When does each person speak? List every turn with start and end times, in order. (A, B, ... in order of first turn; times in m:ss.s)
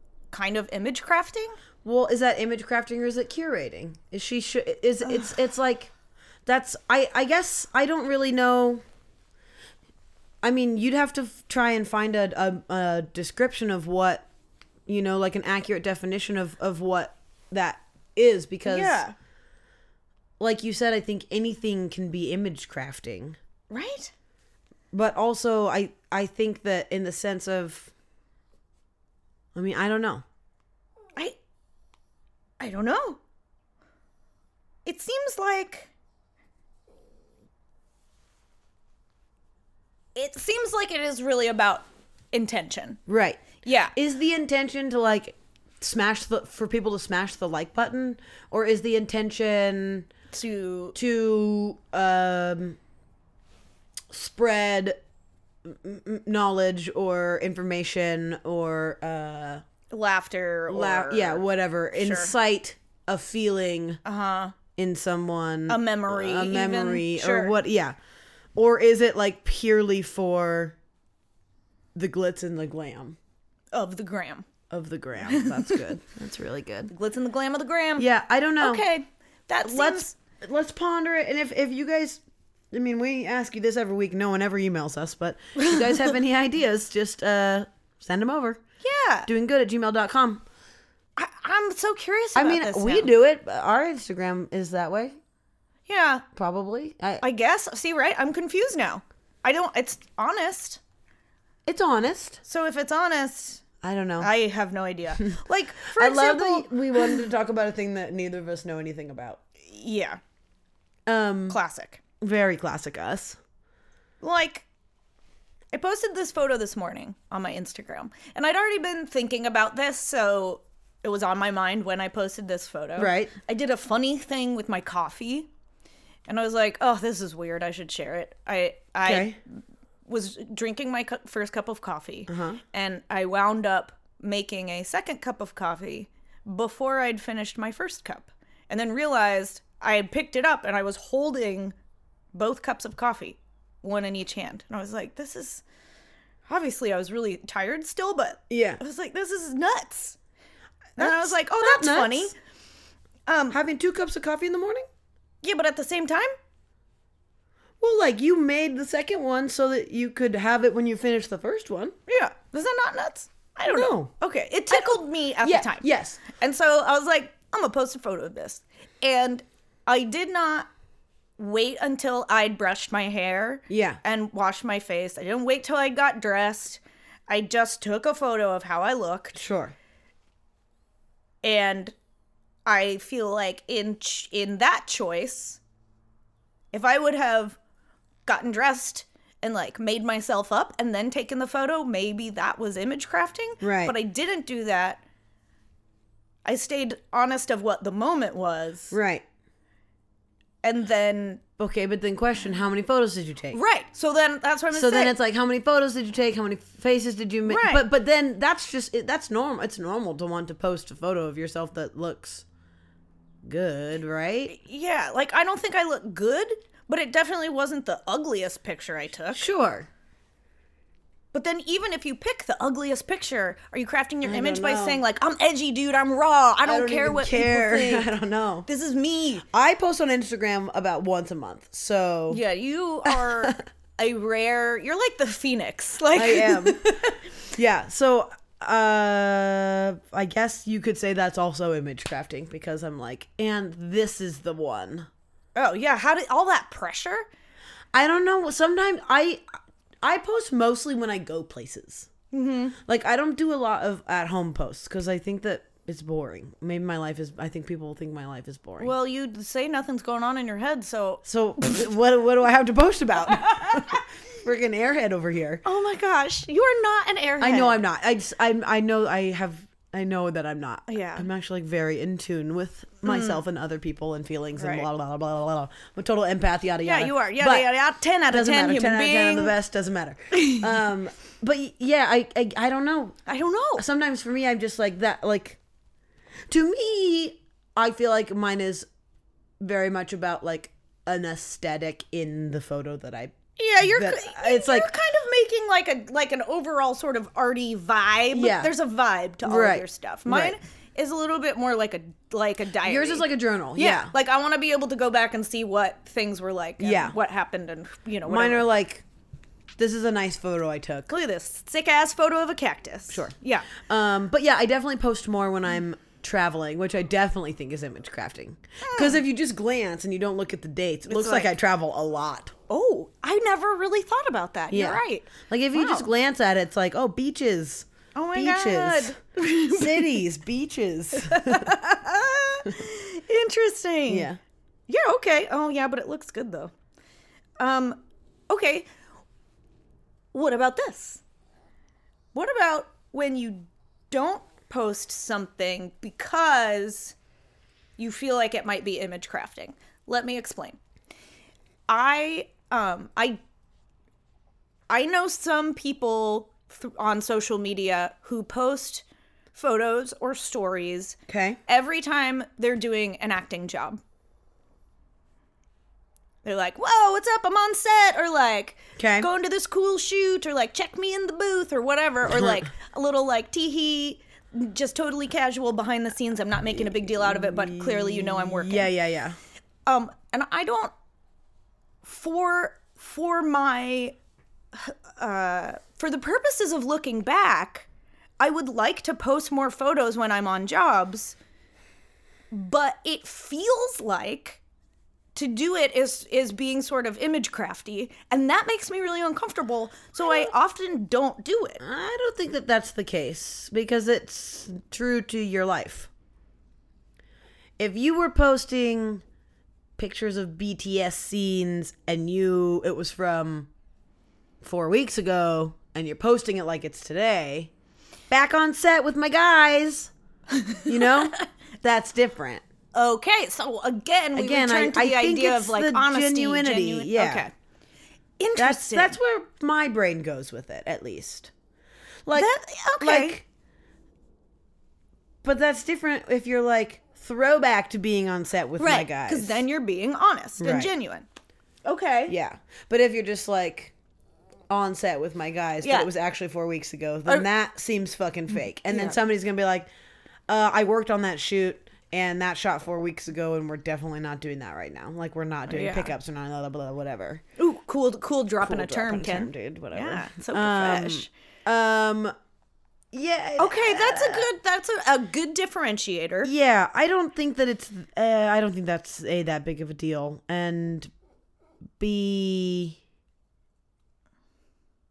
0:00.3-0:01.6 A
0:01.8-0:05.9 B
0:05.0-0:05.3 A
0:06.4-0:08.8 B
0:10.4-0:14.3 B
0:14.9-0:19.0 B
0:18.6-0:19.1 A
0:20.4-0:23.4 B
0:23.7-0:24.1 A
0:24.9-0:27.9 B
0:29.5-0:30.2 B
0:32.6-0:33.2 A
0:34.8-0:35.9 A
0:40.1-0:43.0 A
0:43.1-0:50.1 B
0:43.6-0:43.9 A
0:50.3-0:51.0 A
0:50.9-0:52.8 B
0:54.1-0:55.0 B
0:55.6-0:59.6 B
0:59.9-1:01.4 A
1:00.7-1:04.0 B
1:01.9-1:02.3 A
1:04.0-1:04.6 A
1:04.8-1:08.0 B
1:05.7-1:07.5 A
1:08.6-1:10.8 B
1:11.9-1:13.2 B
1:13.7-1:14.5 A
1:14.7-1:16.9 B
1:15.2-1:15.8 A
1:16.9-1:18.1 A
1:18.0-1:18.8 B
1:18.6-1:20.2 A
1:19.6-1:28.6 B
1:28.8-1:29.3 A
1:29.2-1:30.4 B
1:31.2-1:33.1 A
1:32.3-1:35.2 B
1:35.9-1:36.2 A
1:36.3-1:37.2 B
1:37.2-1:40.8 A
1:41.6-1:42.4 B
1:42.4-1:43.6 A
1:43.8-1:44.3 B
1:44.2-1:47.2 A
1:45.9-1:49.4 B
1:49.6-1:50.2 A
1:51.0-1:51.6 B
1:51.5-1:52.0 A
1:52.2-1:53.4 B
1:54.2-1:54.6 A
1:55.7-2:05.5 A
2:03.0-2:03.3 B
2:06.3-2:09.4 A
2:09.0-2:09.4 B
2:10.0-2:21.7 A
2:12.3-2:12.6 B
2:22.3-2:25.6 A
2:26.5-2:30.2 A
2:28.5-2:28.8 B
2:31.0-2:32.3 B
2:31.0-2:32.3 A
2:33.3-2:33.6 A
2:33.5-2:34.8 B
2:35.4-2:36.3 A
2:37.8-2:41.9 B
2:42.1-2:50.7 A
2:43.7-2:44.1 B
2:44.7-2:46.2 B
2:51.4-2:59.4 A
2:53.7-2:54.0 B
2:59.3-2:59.7 B
3:01.4-3:01.9 A
3:02.6-3:05.6 A
3:06.7-3:07.6 A
3:08.2-3:15.0 A
3:13.6-3:14.0 B
3:16.4-3:19.0 A
3:18.9-3:19.2 B
3:20.6-3:21.4 A
3:21.6-3:23.6 B
3:23.5-3:25.1 A
3:24.7-3:32.4 B
3:27.4-3:27.8 A
3:33.4-3:34.5 B
3:34.5-3:39.5 A
3:39.3-3:39.9 B
3:41.3-3:48.1 A
3:44.2-3:45.0 B
3:46.6-3:48.6 B
3:48.6-3:49.4 A
3:49.5-3:52.4 B
3:52.3-3:57.2 A
3:53.0-3:53.6 B
3:56.1-4:05.1 B
4:05.5-4:07.3 A
4:07.9-4:09.4 B
4:10.0-4:12.1 B
4:12.3-4:12.8 A
4:12.8-4:18.9 B
4:18.8-4:21.2 A
4:21.2-4:25.6 B
4:23.3-4:24.0 A
4:25.6-4:27.8 A
4:27.4-4:37.7 B
4:30.9-4:31.3 A
4:33.0-4:33.4 A
4:34.6-4:34.9 A
4:36.8-4:39.5 A
4:38.3-4:43.2 B
4:40.3-4:40.8 A
4:43.3-4:43.8 A
4:43.8-4:45.6 B
4:46.5-4:48.9 B
4:49.6-4:54.9 B
4:53.6-5:08.6 A
4:58.3-4:58.7 B
4:59.4-5:00.6 B
5:02.8-5:04.1 B
5:06.8-5:07.2 B
5:08.2-5:09.0 B
5:09.8-5:11.1 B
5:11.1-5:13.7 A
5:13.1-5:22.5 B
5:18.8-5:19.2 A
5:21.1-5:21.5 A
5:22.7-5:26.1 A
5:24.7-5:31.7 B
5:28.1-5:30.2 A
5:31.1-5:34.3 A
5:34.1-5:34.4 B
5:34.9-5:36.7 A
5:37.6-5:38.9 A
5:40.3-5:41.2 A
5:42.3-5:47.1 A
5:48.0-5:50.8 A
5:51.9-5:53.4 A
5:54.9-6:04.0 A
6:01.3-6:01.6 B
6:06.4-6:18.9 A
6:09.0-6:09.3 B
6:12.3-6:12.6 B
6:16.8-6:19.4 B
6:19.8-6:20.9 A
6:22.0-6:24.2 A
6:24.7-6:27.9 A
6:28.4-6:31.4 A
6:32.5-6:34.6 A
6:35.3-6:41.8 A
6:40.2-6:40.5 B
6:41.8-6:46.1 B
6:47.8-6:49.2 B
6:50.0-6:53.7 B
6:54.6-6:57.7 B
6:58.3-7:00.1 B
7:00.5-7:01.4 A
7:00.8-7:02.6 B
7:02.9-7:07.5 A
7:04.4-7:07.5 B
7:08.4-7:09.2 A
7:08.6-7:11.5 B
7:12.2-7:13.4 B
7:12.3-7:13.4 A
7:15.4-7:19.6 B
7:18.8-7:21.2 A
7:20.6-7:20.9 B
7:21.8-7:22.3 A
7:22.3-7:23.9 B
7:24.7-7:29.9 B
7:25.8-7:26.1 A
7:28.9-7:29.2 A
7:30.5-7:37.4 B
7:35.7-7:36.1 A
7:37.6-7:41.3 A
7:38.6-7:42.3 B
7:43.1-7:44.5 B
7:43.6-7:46.5 A
7:46.4-7:51.1 B
7:52.0-7:53.0 B